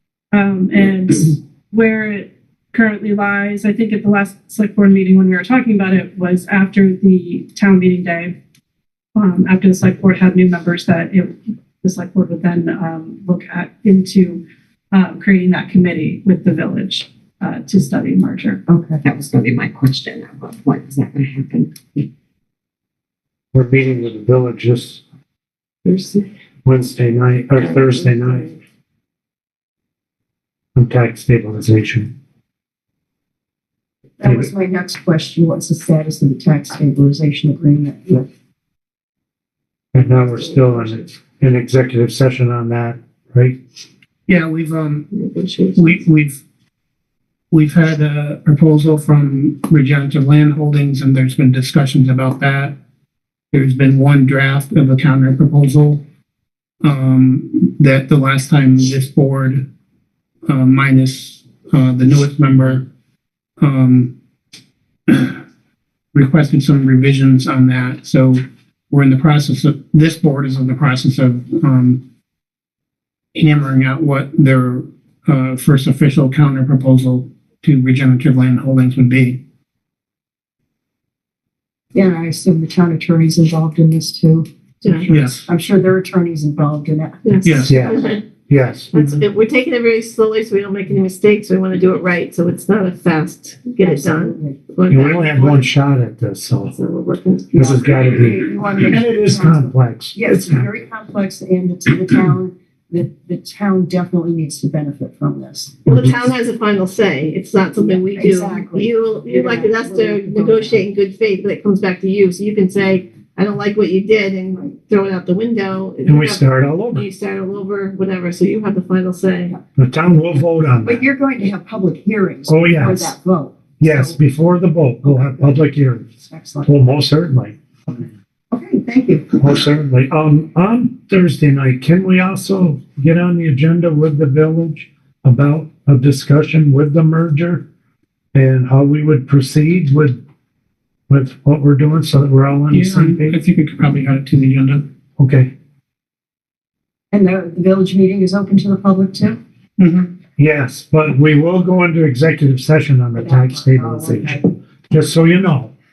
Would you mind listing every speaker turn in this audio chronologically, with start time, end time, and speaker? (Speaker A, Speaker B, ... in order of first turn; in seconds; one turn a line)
Speaker A: 0.3-8.3
Speaker A: 9.1-18.6
Speaker B: 18.7-19.0
Speaker C: 19.0-22.0
Speaker D: 23.5-25.0
Speaker E: 25.8-26.2
Speaker D: 26.6-28.5
Speaker E: 27.6-28.6
Speaker D: 30.8-32.1
Speaker B: 34.2-38.2
Speaker D: 34.2-34.5
Speaker D: 39.9-43.6
Speaker E: 39.9-41.0
Speaker F: 44.3-45.1
Speaker E: 45.1-46.0
Speaker F: 45.7-46.4
Speaker F: 47.5-52.8
Speaker F: 53.5-56.0
Speaker F: 56.8-59.6
Speaker F: 60.5-62.8
Speaker F: 63.6-64.1
Speaker F: 65.1-65.4
Speaker F: 66.1-72.0
Speaker F: 73.3-79.4
Speaker B: 81.9-84.5
Speaker E: 84.8-85.1
Speaker F: 85.1-85.4
Speaker B: 85.1-87.2
Speaker E: 87.2-88.2
Speaker F: 87.4-87.8
Speaker D: 87.7-88.9
Speaker E: 88.9-95.7
Speaker B: 93.8-94.6
Speaker D: 94.9-96.7
Speaker E: 96.7-97.8
Speaker D: 97.5-100.6
Speaker B: 97.9-105.9
Speaker E: 105.9-119.5
Speaker B: 107.8-110.8
Speaker D: 116.1-117.0
Speaker D: 119.8-121.0
Speaker B: 120.8-124.2
Speaker D: 122.5-123.1
Speaker D: 123.8-126.1
Speaker B: 125.0-125.6
Speaker B: 126.3-126.8
Speaker D: 126.7-127.6
Speaker B: 128.5-129.3
Speaker D: 129.3-137.6
Speaker D: 138.3-140.2
Speaker D: 141.1-143.3
Speaker F: 142.7-144.8
Speaker D: 145.2-145.5
Speaker B: 147.1-149.4
Speaker F: 149.8-150.1
Speaker D: 150.4-155.7
Speaker B: 153.2-154.4